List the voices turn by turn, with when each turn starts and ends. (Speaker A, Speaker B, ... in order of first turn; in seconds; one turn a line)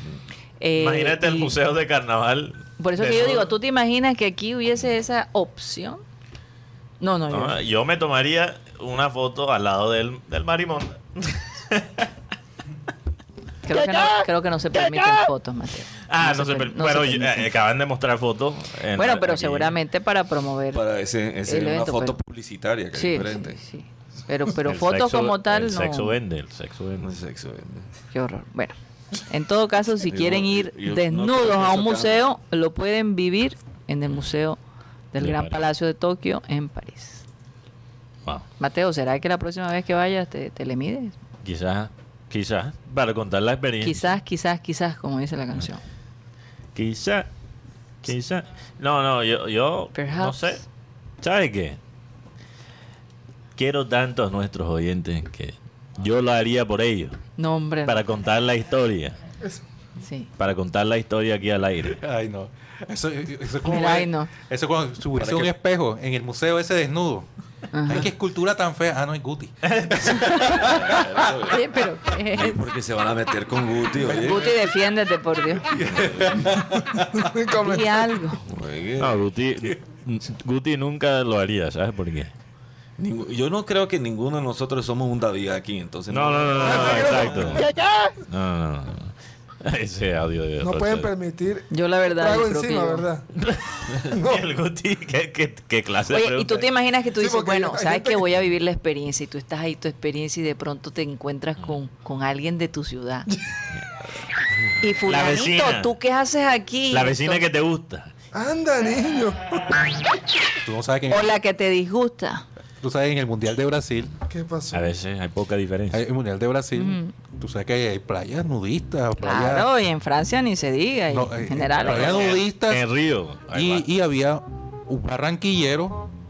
Speaker A: 0.6-1.5
Speaker B: 0.8-3.5
Speaker A: 2.8-6.0
Speaker A: 7.0-7.6
Speaker B: 7.3-12.1
Speaker A: 13.6-17.5
Speaker B: 16.1-19.7
Speaker A: 18.9-20.8
Speaker C: 20.7-23.6
Speaker A: 21.4-22.2
Speaker A: 22.9-26.2
Speaker B: 24.6-27.1
Speaker C: 27.0-27.9
Speaker A: 28.1-28.7
Speaker A: 29.3-34.6
Speaker C: 30.1-32.2
Speaker A: 35.1-37.2
Speaker B: 35.2-35.6
Speaker A: 38.6-41.1
Speaker B: 41.4-44.1
Speaker A: 43.8-45.8
Speaker B: 46.7-47.3
Speaker B: 48.0-50.6
Speaker A: 49.9-50.6
Speaker B: 51.2-51.8
Speaker B: 53.5-57.2
Speaker A: 57.4-58.0
Speaker B: 57.8-59.1
Speaker A: 60.0-60.3
Speaker B: 60.4-62.0
Speaker D: 61.9-67.3
Speaker A: 63.6-64.3
Speaker C: 65.2-65.5
Speaker A: 67.7-68.1
Speaker D: 67.8-71.0
Speaker B: 69.7-70.4
Speaker A: 70.1-70.8
Speaker C: 70.4-71.7
Speaker A: 71.4-72.6
Speaker C: 72.3-74.5
Speaker A: 74.0-75.7
Speaker D: 75.7-76.9
Speaker C: 75.7-76.5
Speaker E: 76.5-78.2
Speaker A: 77.6-78.4
Speaker C: 78.5-79.2
Speaker B: 79.0-82.3
Speaker C: 83.0-87.6
Speaker B: 86.1-87.7
Speaker E: 86.5-88.1
Speaker B: 88.3-89.1
Speaker B: 89.6-91.1
Speaker E: 90.6-93.2
Speaker A: 91.7-93.1
Speaker B: 93.4-96.6
Speaker E: 94.0-94.5
Speaker A: 96.1-103.3
Speaker E: 97.1-98.2
Speaker A: 104.8-107.5
Speaker B: 105.0-105.9
Speaker B: 106.9-108.1
Speaker E: 108.3-109.9
Speaker D: 110.6-111.3
Speaker A: 111.1-112.4
Speaker D: 112.8-114.1
Speaker E: 114.3-114.9
Speaker B: 114.7-116.0
Speaker D: 115.9-119.7
Speaker A: 116.7-117.1
Speaker A: 119.2-122.4
Speaker D: 121.1-122.8
Speaker B: 121.8-123.9
Speaker D: 123.5-126.1